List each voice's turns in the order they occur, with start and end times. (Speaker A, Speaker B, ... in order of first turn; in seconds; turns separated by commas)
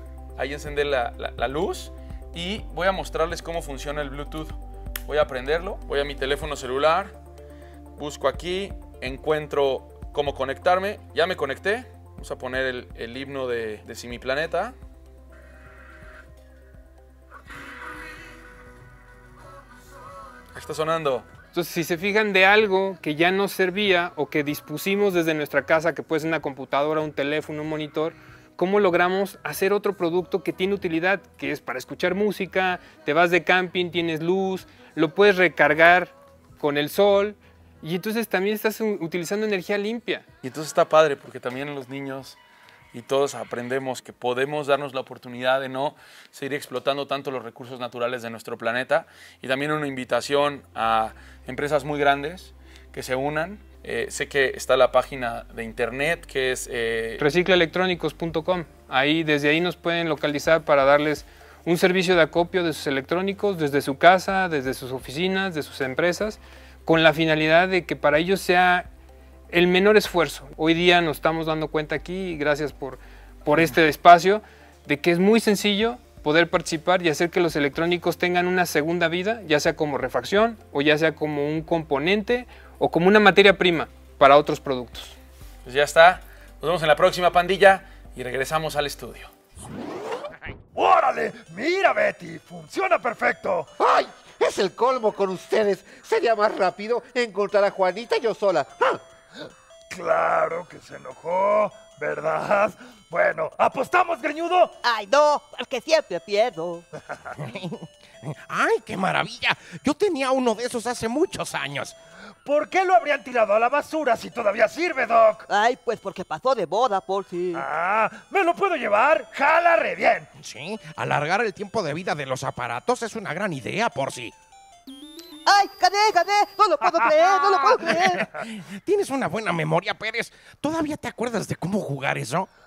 Speaker A: 0.4-7.1, Speaker A: 8.0-14.8, Speaker A: 20.6-21.2, Speaker B: 21.5-40.3, Speaker A: 40.4-42.4, Speaker A: 42.9-57.2, Speaker B: 57.2-68.9, Speaker B: 69.5-85.2, Speaker A: 85.7-89.3, Speaker C: 90.8-93.7, Speaker D: 93.8-99.0, Speaker C: 99.9-104.8, Speaker E: 104.8-106.9, Speaker F: 107.4-112.0, Speaker C: 112.4-115.5, Speaker E: 115.5-117.7, Speaker C: 117.5-120.3, Speaker F: 120.4-124.3, Speaker E: 125.5-128.3, Speaker F: 128.3-132.5